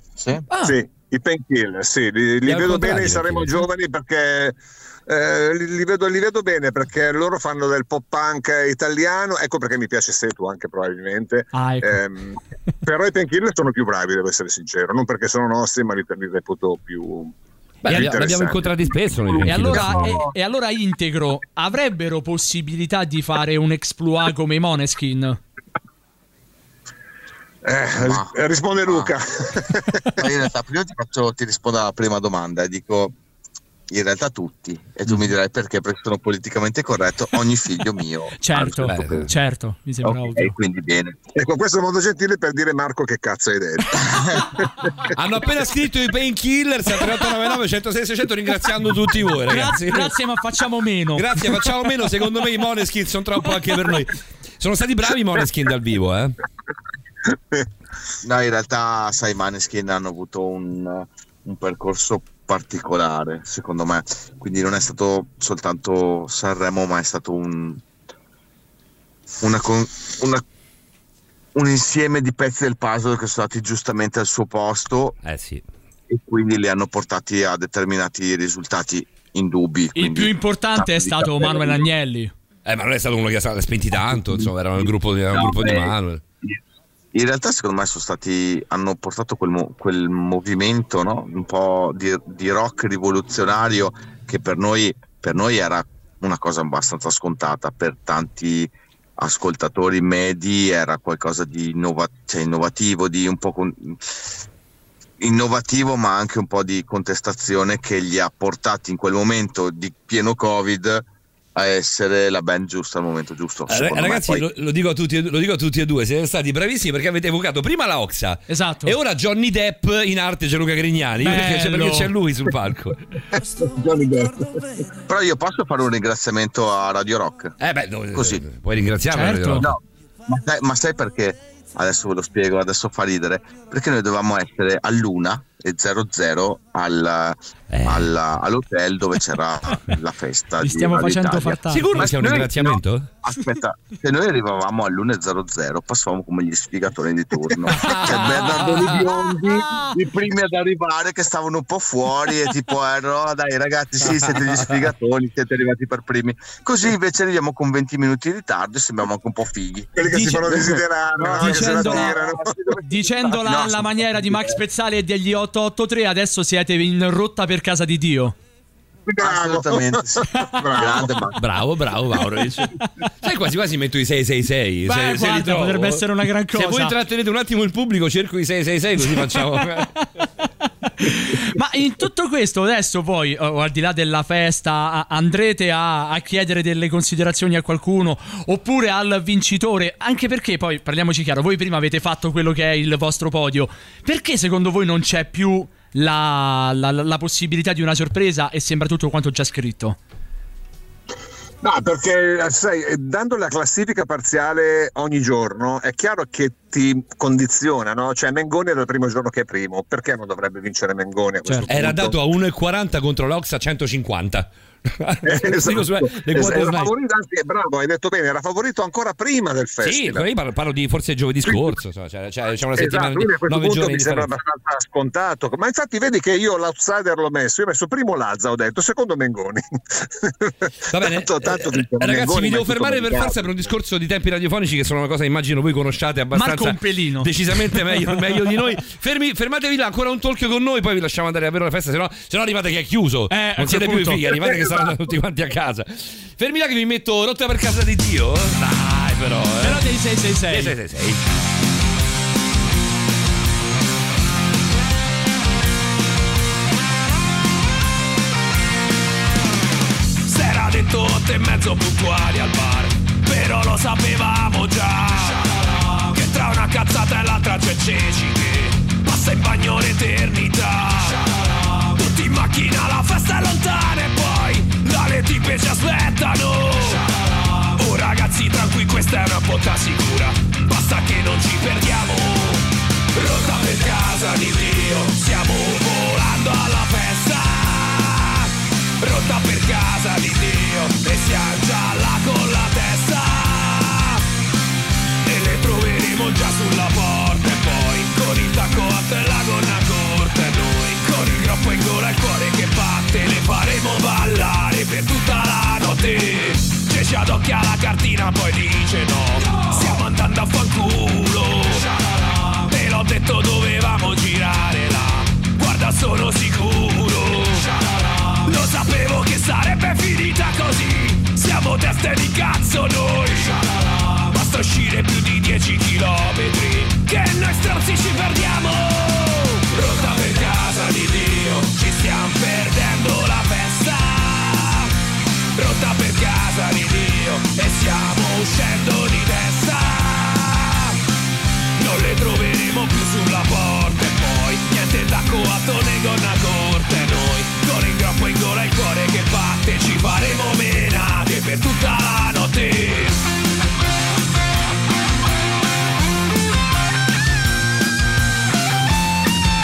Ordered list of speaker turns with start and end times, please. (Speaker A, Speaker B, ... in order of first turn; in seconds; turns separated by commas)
Speaker A: 0.2-0.5, Speaker B: 0.5-0.8, Speaker C: 0.5-17.3, Speaker D: 2.5-3.6, Speaker B: 11.5-12.0, Speaker D: 17.8-20.2, Speaker C: 17.9-20.3, Speaker B: 19.4-25.4, Speaker C: 27.6-30.0, Speaker A: 28.0-28.3, Speaker A: 28.9-29.1, Speaker A: 30.2-33.1, Speaker A: 33.9-39.2, Speaker B: 38.4-40.5, Speaker D: 38.7-39.3, Speaker A: 40.0-41.2, Speaker C: 41.3-44.1, Speaker D: 45.1-50.1, Speaker B: 49.5-51.4, Speaker D: 51.1-56.4, Speaker A: 58.2-67.8, Speaker A: 69.4-70.4, Speaker A: 71.5-75.2, Speaker D: 75.2-75.6, Speaker A: 76.1-81.9, Speaker B: 80.0-82.3, Speaker D: 82.7-86.2, Speaker A: 83.9-86.6, Speaker A: 87.1-104.1, Speaker A: 105.2-111.0, Speaker A: 111.5-114.5, Speaker D: 113.7-123.0, Speaker B: 118.5-118.9, Speaker B: 121.2-122.1, Speaker C: 123.6-124.5, Speaker A: 125.0-127.5, Speaker D: 127.6-129.8, Speaker A: 128.1-128.5, Speaker B: 129.1-129.7, Speaker A: 129.6-162.4, Speaker D: 137.7-138.1, Speaker B: 140.6-142.4, Speaker D: 141.7-143.1, Speaker D: 147.8-148.8, Speaker B: 147.8-149.9, Speaker C: 159.9-162.8, Speaker B: 160.1-160.8, Speaker B: 161.4-162.2, Speaker B: 162.8-168.3, Speaker C: 163.4-164.3, Speaker C: 169.1-171.3, Speaker A: 169.2-171.4, Speaker D: 171.4-179.9, Speaker B: 174.8-176.9, Speaker B: 181.0-200.0, Speaker C: 201.6-212.2, Speaker D: 211.7-216.9, Speaker C: 215.2-220.2, Speaker D: 219.8-224.3, Speaker C: 221.4-221.8, Speaker C: 222.8-233.6, Speaker D: 230.9-249.8, Speaker B: 236.3-237.3, Speaker B: 243.3-244.2, Speaker B: 249.6-250.7, Speaker D: 250.4-251.2, Speaker E: 260.2-271.2, Speaker E: 271.8-277.1, Speaker E: 277.6-282.6, Speaker E: 283.1-288.5, Speaker E: 289.0-294.2, Speaker E: 295.2-311.9, Speaker E: 312.6-317.7, Speaker E: 318.4-334.9, Speaker E: 335.5-340.9, Speaker E: 341.8-353.2